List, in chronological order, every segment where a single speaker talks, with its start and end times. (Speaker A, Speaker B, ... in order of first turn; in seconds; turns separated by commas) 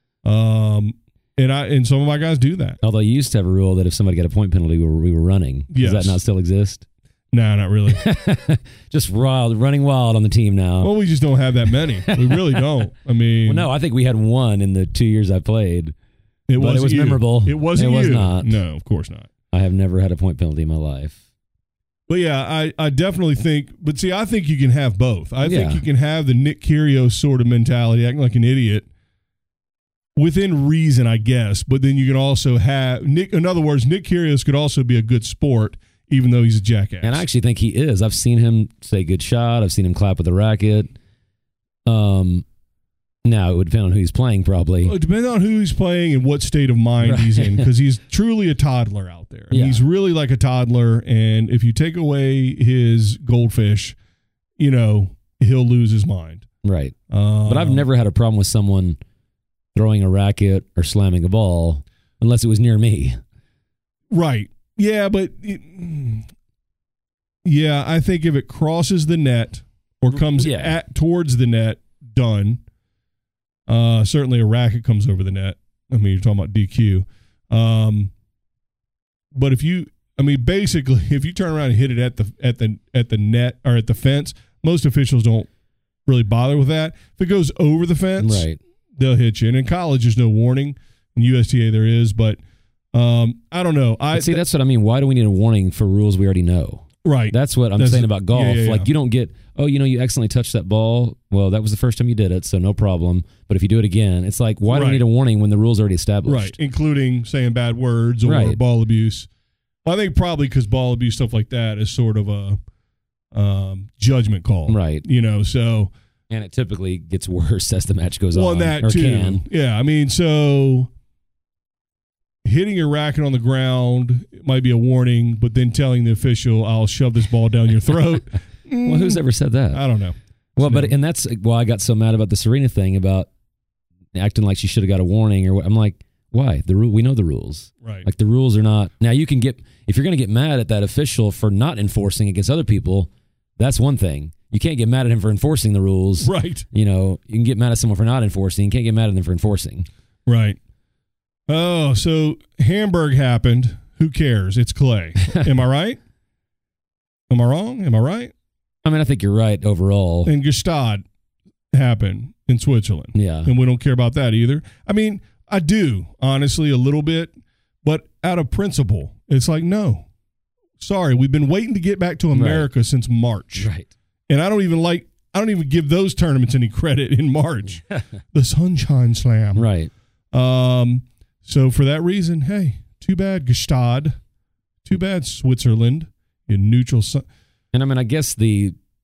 Speaker A: 0.2-2.8, Speaker B: 2.8-6.8, Speaker A: 5.7-6.2, Speaker A: 7.3-8.0, Speaker B: 7.9-10.9, Speaker A: 10.8-13.7, Speaker B: 12.1-12.7, Speaker B: 13.4-15.9, Speaker A: 16.5-19.3, Speaker B: 16.6-18.6, Speaker B: 19.5-21.2, Speaker A: 22.1-28.9, Speaker B: 25.4-25.8, Speaker A: 30.2-37.2, Speaker B: 37.0-40.9, Speaker B: 41.9-42.5, Speaker B: 43.2-45.0, Speaker A: 44.8-54.0, Speaker B: 47.0-47.7, Speaker B: 49.5-49.8, Speaker A: 54.6-56.5, Speaker B: 56.6-59.0, Speaker A: 57.1-57.9, Speaker B: 59.8-63.2, Speaker A: 64.1-66.3, Speaker A: 67.5-72.6, Speaker B: 70.2-70.8, Speaker A: 73.7-78.1, Speaker A: 79.3-85.5, Speaker A: 86.1-92.4, Speaker B: 88.2-88.6, Speaker A: 92.9-94.4, Speaker B: 94.1-106.6, Speaker A: 97.0-98.9, Speaker A: 104.7-105.0, Speaker A: 106.3-109.3, Speaker B: 108.2-108.6, Speaker A: 109.8-112.6, Speaker A: 113.3-115.9, Speaker B: 114.7-115.0, Speaker B: 116.3-119.5, Speaker A: 118.3-120.9, Speaker A: 122.4-129.2, Speaker B: 128.8-129.8, Speaker A: 129.7-130.9, Speaker B: 130.6-133.3, Speaker B: 134.1-149.9, Speaker A: 137.8-138.1, Speaker A: 146.2-146.7, Speaker A: 150.3-150.6, Speaker A: 151.5-156.0, Speaker A: 157.3-158.3, Speaker B: 158.8-160.3, Speaker A: 160.2-161.0, Speaker A: 161.7-170.1, Speaker B: 163.1-163.5, Speaker A: 170.8-173.7, Speaker B: 172.3-172.7, Speaker B: 173.6-173.9, Speaker A: 174.3-179.7, Speaker B: 179.6-179.9, Speaker A: 180.3-184.2, Speaker A: 184.8-187.3, Speaker B: 187.7-188.8